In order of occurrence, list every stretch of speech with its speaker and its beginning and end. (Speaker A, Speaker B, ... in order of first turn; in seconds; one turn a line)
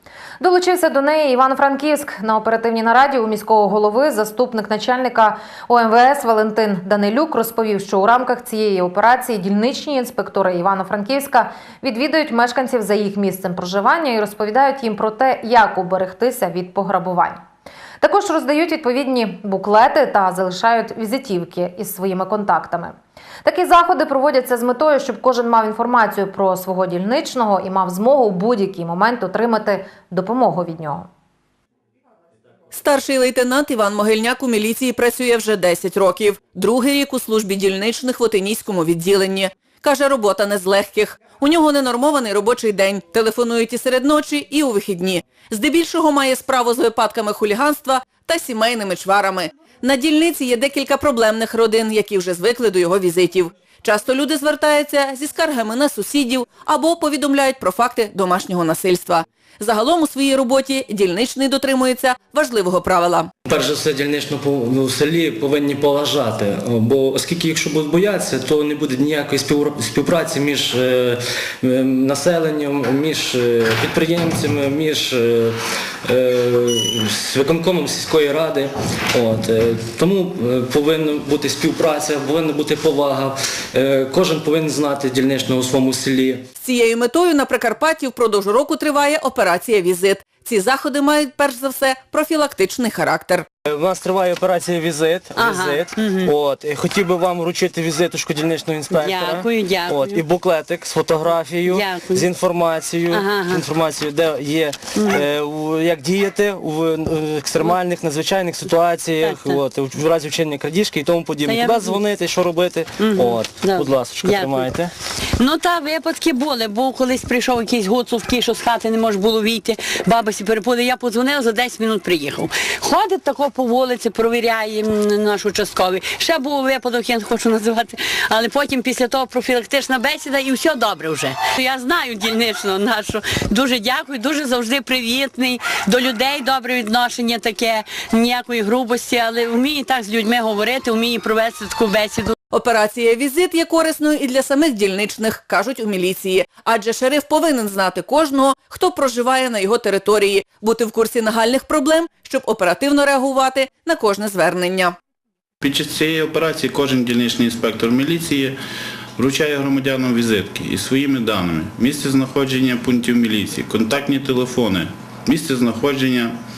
Speaker A: 0.4-17.4
Speaker A: 18.0-31.1
Speaker B: 32.7-63.3
Speaker C: 63.5-86.5
Speaker B: 86.6-93.5
Speaker C: 93.7-114.9
Speaker D: 95.4-96.3
Speaker D: 98.9-100.2
Speaker D: 101.7-102.2
Speaker D: 103.1-103.6
Speaker D: 105.0-105.2
Speaker D: 109.2-109.6
Speaker D: 111.5-112.0
Speaker D: 113.0-114.7
Speaker D: 115.4-142.4
Speaker B: 142.5-154.9
Speaker E: 155.6-158.6
Speaker E: 159.2-166.4